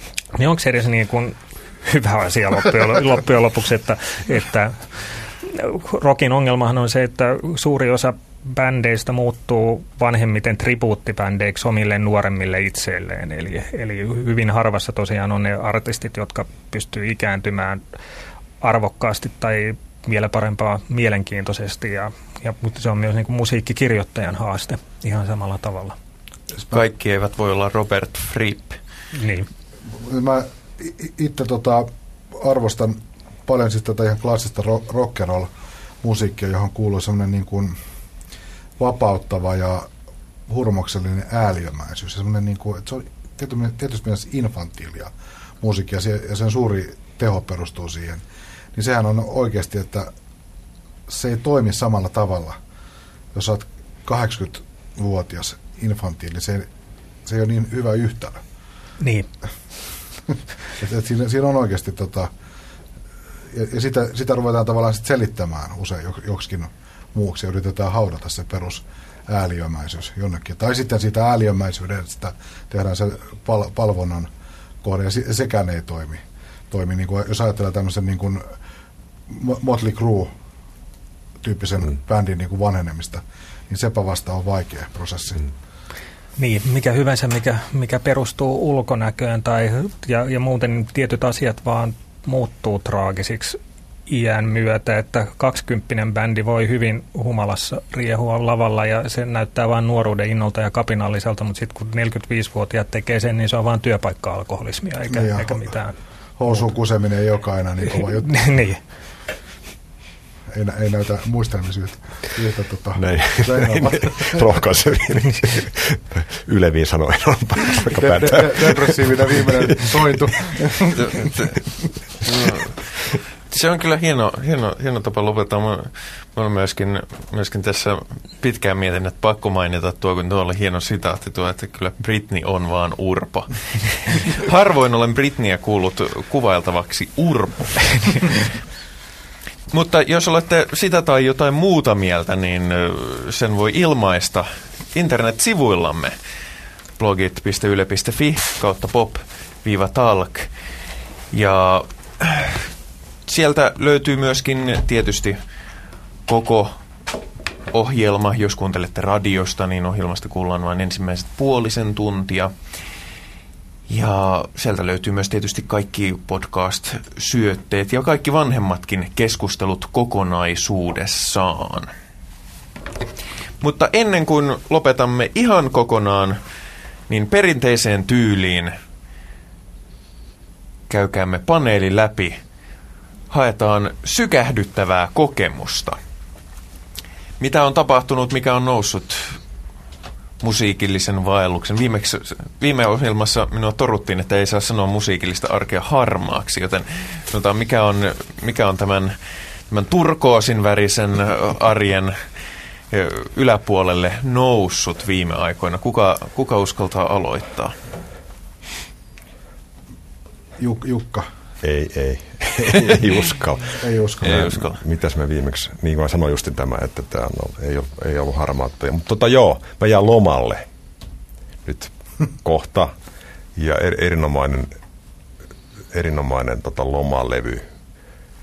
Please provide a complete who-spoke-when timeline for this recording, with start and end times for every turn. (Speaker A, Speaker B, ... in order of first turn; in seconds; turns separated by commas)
Speaker A: 0.3-17.8, Speaker A: 18.6-26.0, Speaker B: 26.7-28.8, Speaker A: 29.1-29.5, Speaker C: 29.9-35.5, Speaker C: 36.0-37.8, Speaker C: 38.8-39.9, Speaker C: 40.5-48.2, Speaker C: 48.8-50.1, Speaker C: 51.1-52.6, Speaker C: 53.3-56.7, Speaker C: 57.2-58.4, Speaker A: 59.0-59.3, Speaker C: 60.7-62.3, Speaker C: 63.5-74.3, Speaker C: 74.8-78.5, Speaker C: 79.3-80.3, Speaker C: 81.4-85.5, Speaker A: 86.4-106.0, Speaker C: 105.1-105.6, Speaker C: 106.4-108.4, Speaker A: 108.0-108.8, Speaker C: 110.5-114.5, Speaker D: 113.0-120.9, Speaker C: 117.9-121.0, Speaker B: 121.0-121.6, Speaker B: 122.2-138.6, Speaker B: 139.7-146.2, Speaker B: 147.0-150.5, Speaker B: 151.3-152.7, Speaker B: 153.3-155.4, Speaker B: 156.3-156.8, Speaker B: 157.7-162.5, Speaker B: 163.9-171.9, Speaker B: 173.6-176.4, Speaker B: 177.1-178.7, Speaker B: 180.9-182.4, Speaker B: 183.3-186.0, Speaker B: 187.4-189.4, Speaker B: 190.4-199.2, Speaker B: 199.7-202.2, Speaker B: 202.9-207.8, Speaker C: 210.6-211.3, Speaker D: 211.6-220.7, Speaker C: 213.8-214.5, Speaker B: 214.2-214.8, Speaker D: 221.7-222.9, Speaker D: 223.6-224.7, Speaker D: 225.9-227.6